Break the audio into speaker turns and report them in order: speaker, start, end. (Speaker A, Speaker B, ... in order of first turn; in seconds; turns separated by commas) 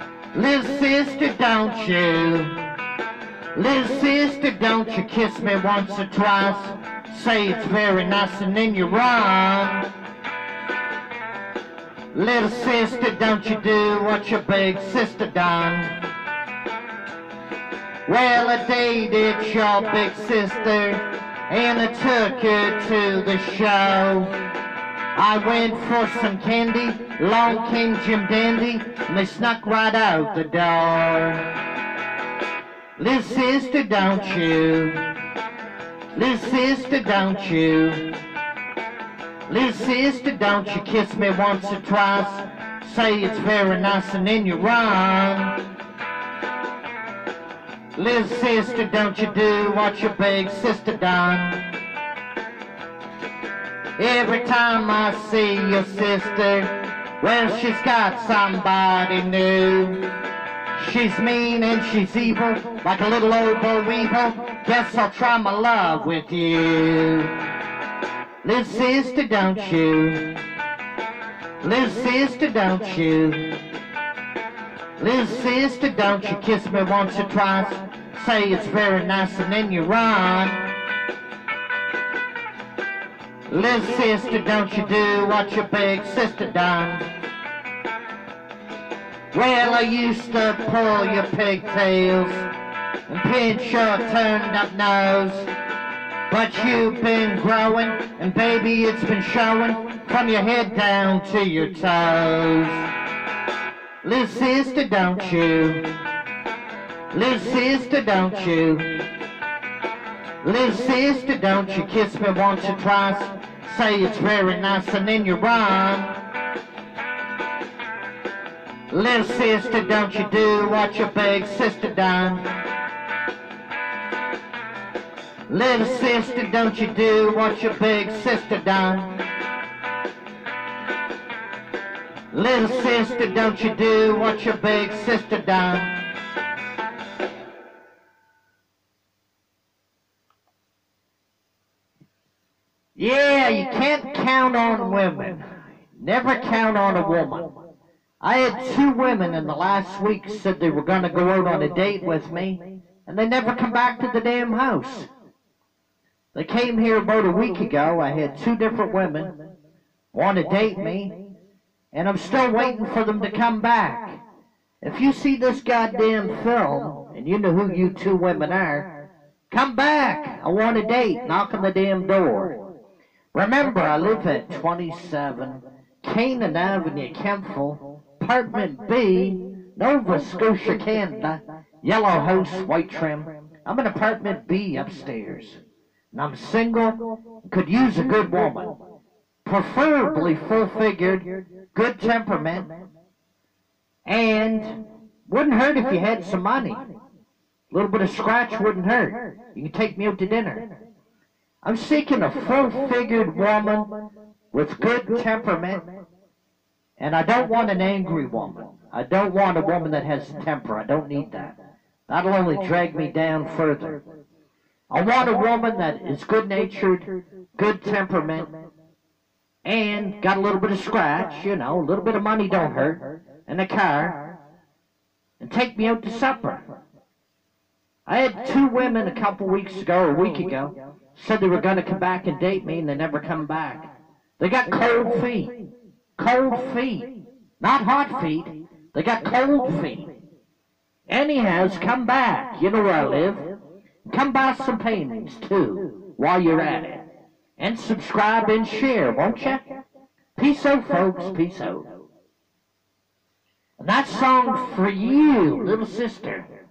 Speaker A: 0.3-2.6, Speaker A: 3.5-9.9, Speaker A: 12.1-16.0, Speaker A: 18.1-24.4, Speaker A: 25.1-31.5, Speaker A: 33.0-35.1, Speaker A: 36.1-38.1, Speaker A: 39.5-45.6, Speaker A: 48.0-51.7, Speaker A: 54.0-60.1, Speaker A: 60.7-67.4, Speaker A: 68.4-70.4, Speaker A: 71.6-73.6, Speaker A: 75.0-80.6, Speaker A: 83.5-87.1, Speaker A: 89.3-92.5, Speaker A: 93.1-95.5, Speaker A: 96.3-102.9, Speaker A: 104.0-106.0, Speaker A: 107.1-109.0, Speaker A: 110.4-116.2, Speaker A: 118.9-122.5, Speaker A: 125.5-129.2, Speaker A: 132.3-136.0, Speaker A: 143.0-147.6, Speaker A: 148.2-155.1, Speaker A: 156.3-159.3, Speaker A: 160.1-161.2, Speaker A: 161.9-164.2, Speaker A: 164.8-168.9, Speaker A: 169.5-172.6, Speaker A: 173.3-185.6, Speaker A: 186.1-188.8, Speaker A: 189.4-192.7, Speaker A: 194.1-196.8, Speaker A: 197.7-200.7, Speaker A: 201.6-203.9, Speaker A: 204.5-205.8, Speaker A: 207.0-211.6, Speaker A: 212.1-214.0, Speaker A: 214.9-218.5, Speaker A: 219.7-224.4, Speaker A: 225.4-226.6, Speaker A: 228.1-235.6, Speaker A: 236.2-240.1, Speaker A: 241.1-243.5, Speaker A: 244.1-247.0, Speaker A: 247.6-249.6, Speaker A: 250.4-251.9, Speaker A: 253.8-256.5